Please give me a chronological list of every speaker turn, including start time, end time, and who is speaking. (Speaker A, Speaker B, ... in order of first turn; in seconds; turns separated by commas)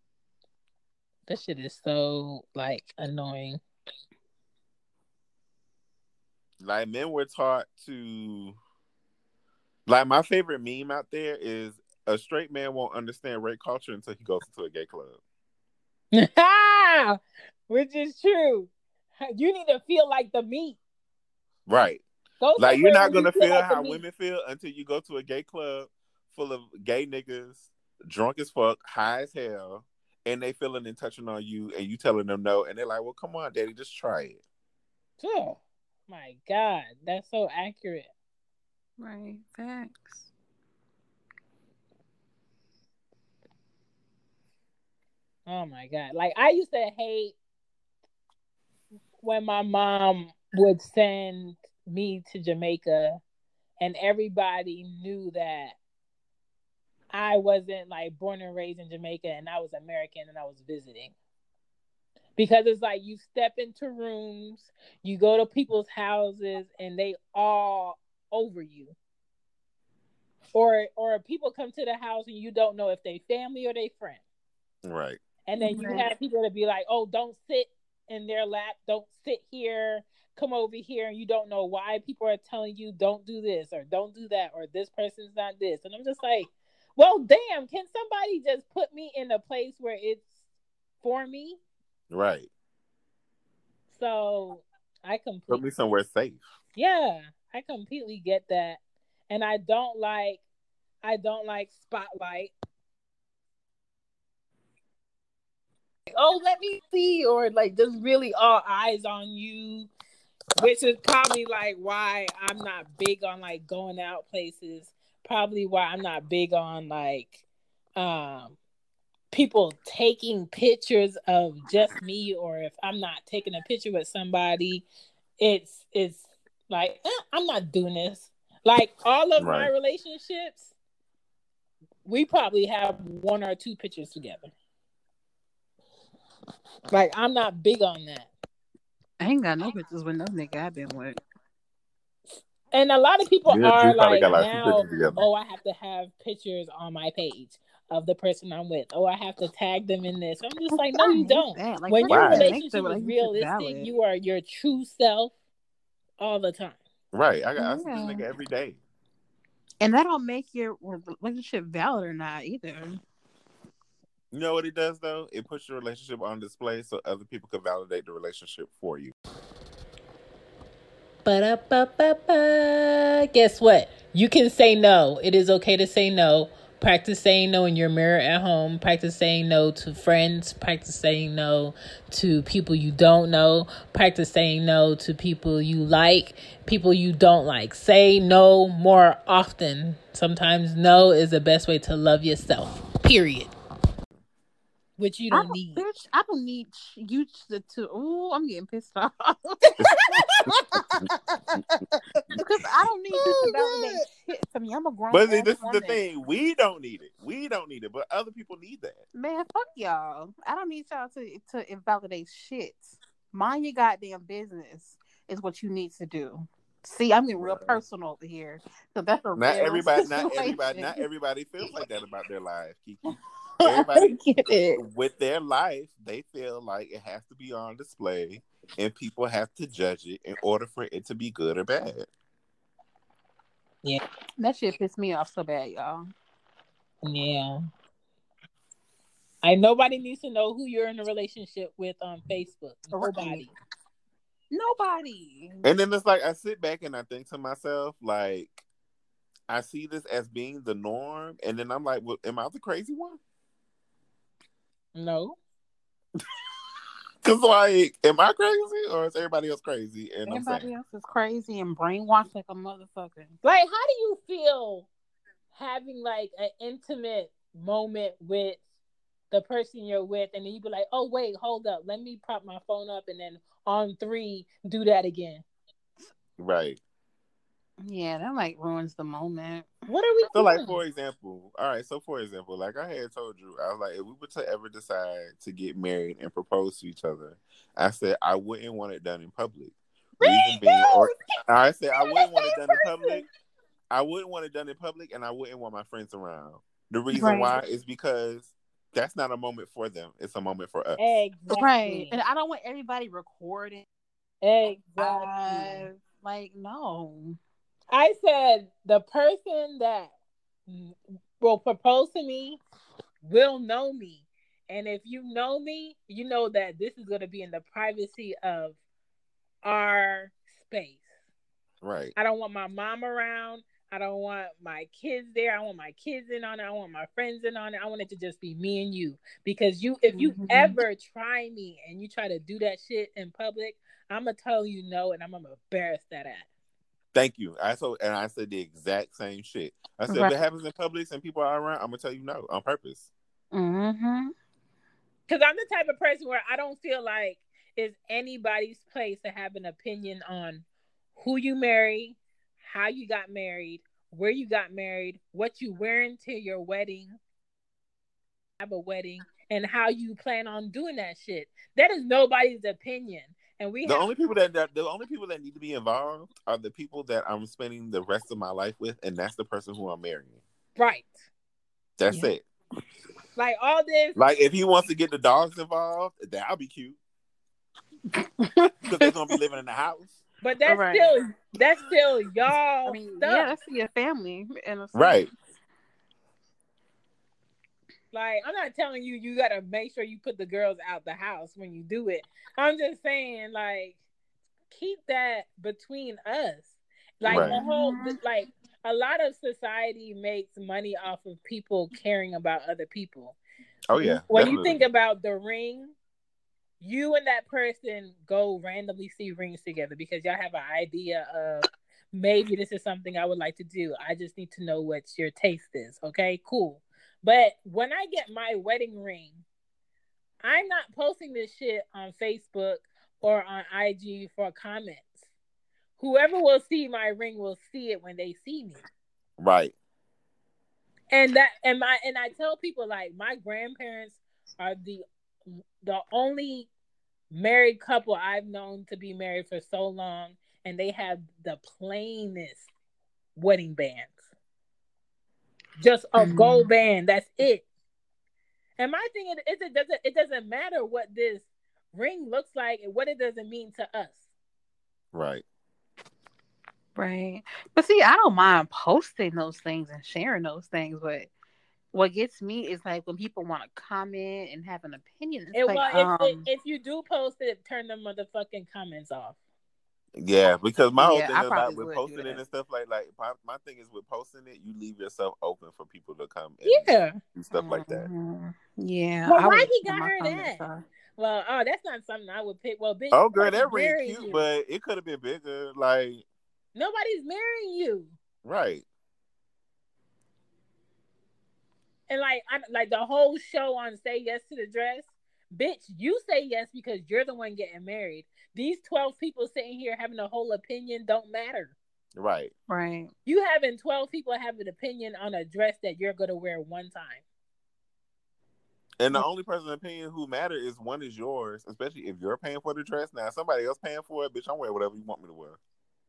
Speaker A: 1.3-3.6, Speaker B: 6.6-8.6, Speaker B: 9.8-15.2, Speaker A: 16.1-18.7, Speaker A: 19.2-20.8, Speaker B: 21.7-22.0, Speaker A: 22.4-24.0, Speaker B: 22.6-34.4, Speaker A: 35.2-38.1, Speaker C: 39.0-40.3, Speaker A: 45.5-47.3, Speaker A: 49.2-53.2, Speaker A: 53.8-55.8, Speaker A: 57.1-61.1, Speaker A: 62.4-68.9, Speaker A: 70.5-74.2, Speaker B: 74.8-75.2, Speaker A: 75.5-90.3, Speaker C: 75.6-76.1, Speaker A: 91.0-91.6, Speaker B: 92.1-92.5, Speaker A: 93.9-95.6, Speaker B: 95.5-96.4, Speaker A: 96.8-100.4, Speaker A: 101.0-102.5, Speaker A: 106.1-109.9, Speaker A: 110.6-117.4, Speaker A: 118.0-118.5, Speaker A: 119.3-124.8, Speaker A: 125.4-130.7, Speaker B: 129.4-129.7, Speaker A: 132.0-134.5, Speaker A: 136.9-138.3, Speaker C: 139.2-141.2, Speaker A: 142.7-155.3, Speaker B: 143.5-145.2, Speaker C: 150.7-153.9, Speaker B: 152.1-152.5, Speaker A: 156.2-156.8, Speaker B: 157.1-158.8, Speaker C: 157.6-158.2, Speaker C: 159.8-163.0, Speaker B: 164.3-169.1, Speaker A: 171.2-193.5, Speaker A: 195.0-195.8, Speaker C: 195.3-206.0, Speaker A: 203.2-203.9, Speaker B: 205.1-209.0, Speaker C: 209.1-221.0, Speaker B: 217.4-217.8, Speaker B: 219.3-223.0, Speaker C: 223.6-224.8, Speaker B: 223.6-232.1, Speaker C: 234.4-236.1, Speaker A: 237.0-237.6, Speaker A: 239.4-243.5, Speaker C: 242.9-243.5, Speaker C: 244.5-245.7, Speaker B: 245.6-248.6, Speaker B: 249.5-253.2, Speaker A: 254.9-255.4, Speaker B: 257.2-260.7, Speaker C: 260.2-263.3, Speaker A: 263.4-264.9, Speaker A: 265.5-268.6, Speaker A: 269.3-275.4, Speaker B: 276.4-276.8, Speaker C: 277.8-279.7, Speaker A: 279.9-280.8, Speaker B: 280.3-293.2, Speaker A: 290.2-291.0, Speaker A: 292.0-293.2, Speaker B: 293.9-301.2, Speaker C: 297.1-297.6, Speaker A: 301.0-302.1, Speaker C: 301.5-303.8, Speaker A: 304.4-305.9, Speaker C: 305.0-307.4, Speaker A: 307.9-310.1, Speaker A: 310.7-312.6, Speaker A: 313.2-318.8, Speaker A: 319.6-321.0, Speaker B: 321.8-322.1, Speaker A: 322.1-336.4, Speaker C: 330.1-330.8, Speaker B: 337.1-343.1, Speaker C: 340.1-340.4, Speaker C: 343.5-344.3, Speaker A: 345.3-350.6, Speaker A: 351.1-357.1, Speaker A: 358.6-364.1, Speaker B: 363.8-370.4, Speaker A: 370.8-371.1, Speaker B: 372.0-372.4, Speaker A: 373.4-374.2, Speaker B: 374.1-377.0, Speaker C: 378.1-379.3, Speaker B: 378.8-380.2, Speaker A: 380.4-383.5, Speaker C: 380.6-381.1, Speaker C: 382.8-385.3, Speaker B: 384.9-385.3, Speaker A: 388.1-394.0, Speaker A: 394.7-403.4, Speaker C: 397.2-398.2, Speaker B: 397.3-397.6, Speaker B: 403.9-404.8, Speaker A: 404.0-405.9, Speaker A: 406.8-419.4, Speaker A: 420.4-425.2, Speaker A: 426.0-428.8, Speaker B: 429.4-429.7, Speaker A: 431.1-436.7, Speaker A: 437.3-442.7, Speaker A: 443.4-444.2, Speaker A: 445.8-447.6, Speaker C: 446.2-446.7, Speaker A: 448.8-454.2, Speaker B: 455.1-455.4, Speaker C: 456.9-461.3, Speaker C: 461.9-466.4, Speaker A: 465.5-469.4, Speaker B: 470.2-478.1, Speaker C: 471.0-472.4, Speaker A: 476.6-477.2, Speaker C: 477.5-480.8, Speaker A: 479.2-480.6, Speaker A: 481.2-484.5, Speaker B: 483.1-486.2, Speaker A: 486.7-488.1, Speaker B: 488.4-488.8, Speaker A: 492.1-501.7, Speaker B: 502.1-502.5, Speaker C: 502.7-503.1, Speaker A: 503.2-507.2, Speaker B: 509.0-515.6